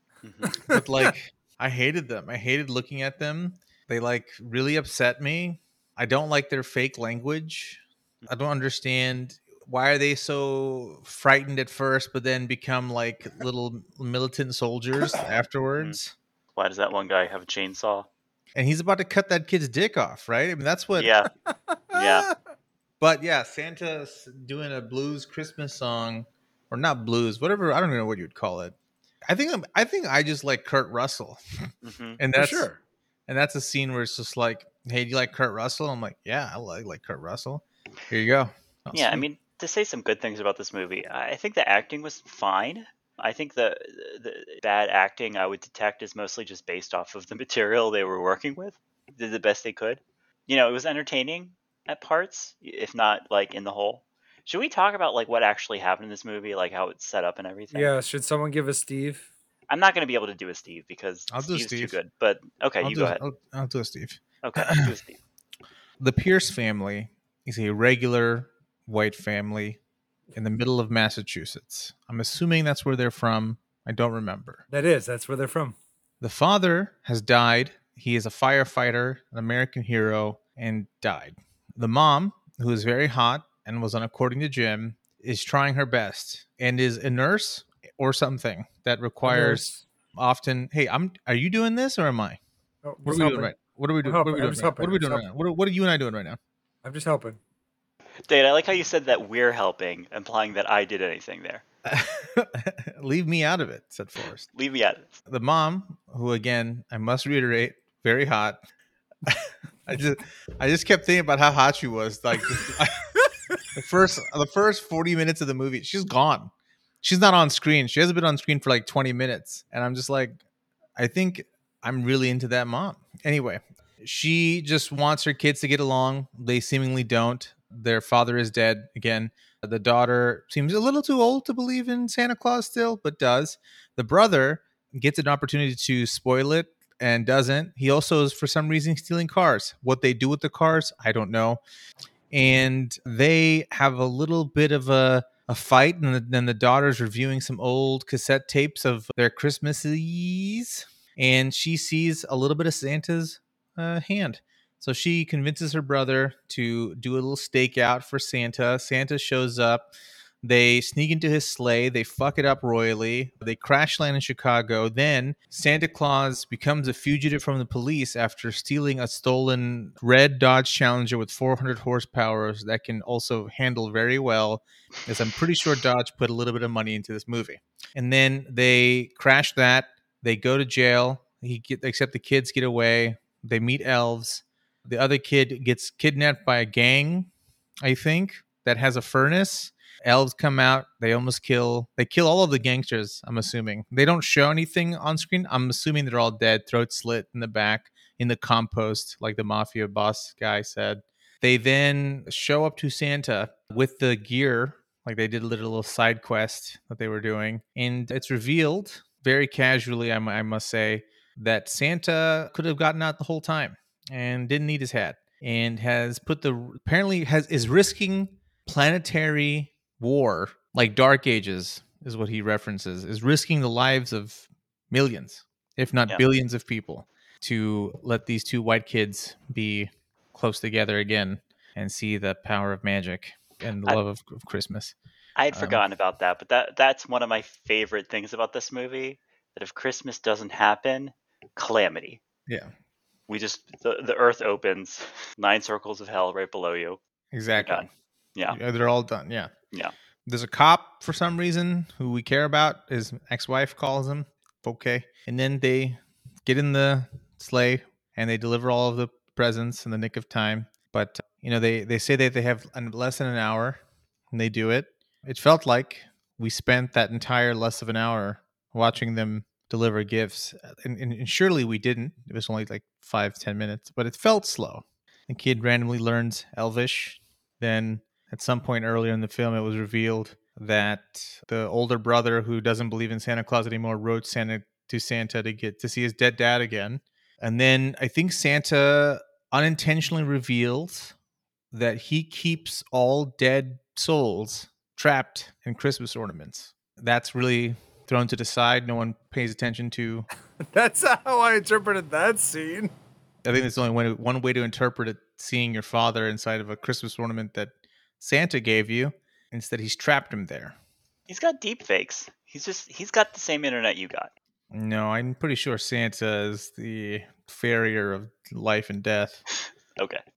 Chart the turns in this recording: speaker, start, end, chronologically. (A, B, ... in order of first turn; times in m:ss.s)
0:00.2-0:00.7 A
0:00.6-0:16.1 B
0:16.6-0:18.1 A
0:18.6-0:21.1 B
0:21.0-0:21.3 A
0:21.9-0:22.2 C
0:21.9-0:22.3 A
0:23.0-0:28.8 B
0:29.3-0:31.4 B
0:31.8-0:32.2 A
0:32.2-0:32.7 B
0:32.4-0:32.8 C
0:33.3-0:39.2 B
0:38.9-0:57.9 A
0:57.7-0:59.3 C
0:59.7-1:03.2 A
1:01.3-1:02.0 B
1:02.8-1:04.9 B
1:04.4-1:05.2 A
1:06.0-1:09.8 B
1:10.4-1:14.6 B
1:14.7-1:15.8 C
1:16.2-1:32.4 B
1:29.2-1:29.8 C
1:32.8-1:35.3 C
1:33.0-1:36.4 B
1:36.8-1:37.4 C
1:38.3-1:41.6 A
1:41.8-1:44.5 B
1:44.5-1:45.2 A
1:45.3-1:48.6 B
1:49.3-1:53.1 B
1:53.8-1:56.5 B
1:57.0-2:00.4 B
2:01.0-2:21.6 B
2:22.3-2:39.9 B
2:40.4-3:07.3 B
3:07.8-3:54.9 B
3:55.4-4:02.2 A
3:55.5-3:55.8 B
4:03.3-4:07.0 A
4:07.3-4:07.9 B
4:07.6-4:08.6 A
4:08.5-4:09.5 B
4:10.3-4:23.8 B
4:24.3-4:51.1 B
4:51.7-5:00.3 B
5:00.6-5:02.9 C
5:03.4-5:10.8 B
5:11.3-5:14.3 A
5:14.7-5:19.4 B
5:20.0-5:20.2 A